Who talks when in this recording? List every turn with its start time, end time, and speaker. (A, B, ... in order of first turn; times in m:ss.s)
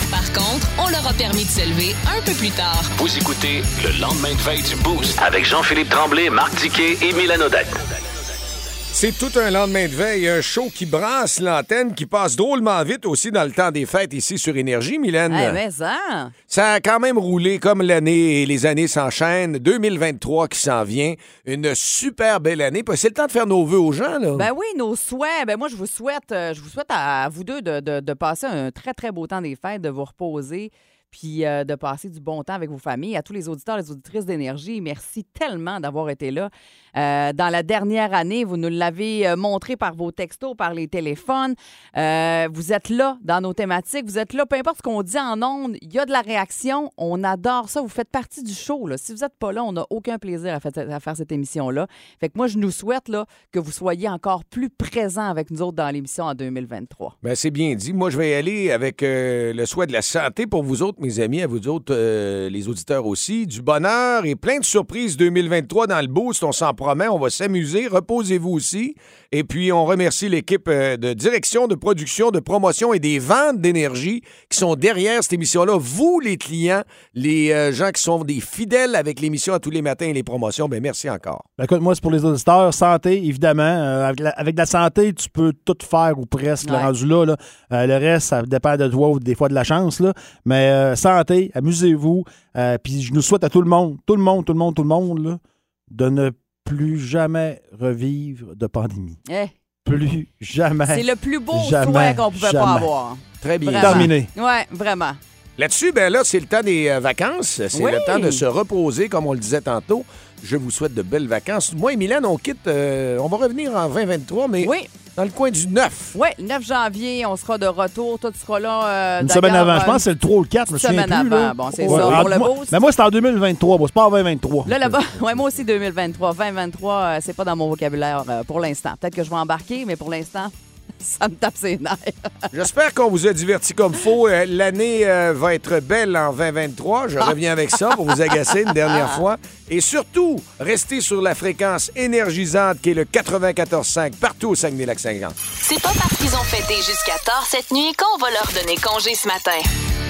0:00.1-0:02.9 A
0:03.0-0:07.9 B
0:08.9-0:15.6 C
0:15.3-0:16.3 D
0:16.5-0:24.5 C
0:24.4-0:57.2 D
0:57.2-1:21.4 C
1:21.6-1:39.2 E
1:26.6-1:26.9 D
1:39.3-1:39.6 D
1:39.8-1:42.9 E
1:40.9-1:45.2 D
1:43.4-1:44.2 C
1:43.8-1:44.3 E
1:45.6-1:56.2 C
1:47.7-1:48.4 D
1:54.6-1:54.9 D
1:56.1-2:00.1 D
1:59.2-2:05.1 E
2:00.7-2:02.8 D
2:01.8-2:02.3 C
2:04.7-2:12.4 D
2:12.5-2:25.4 C
2:18.1-2:19.1 D
2:25.6-2:29.7 A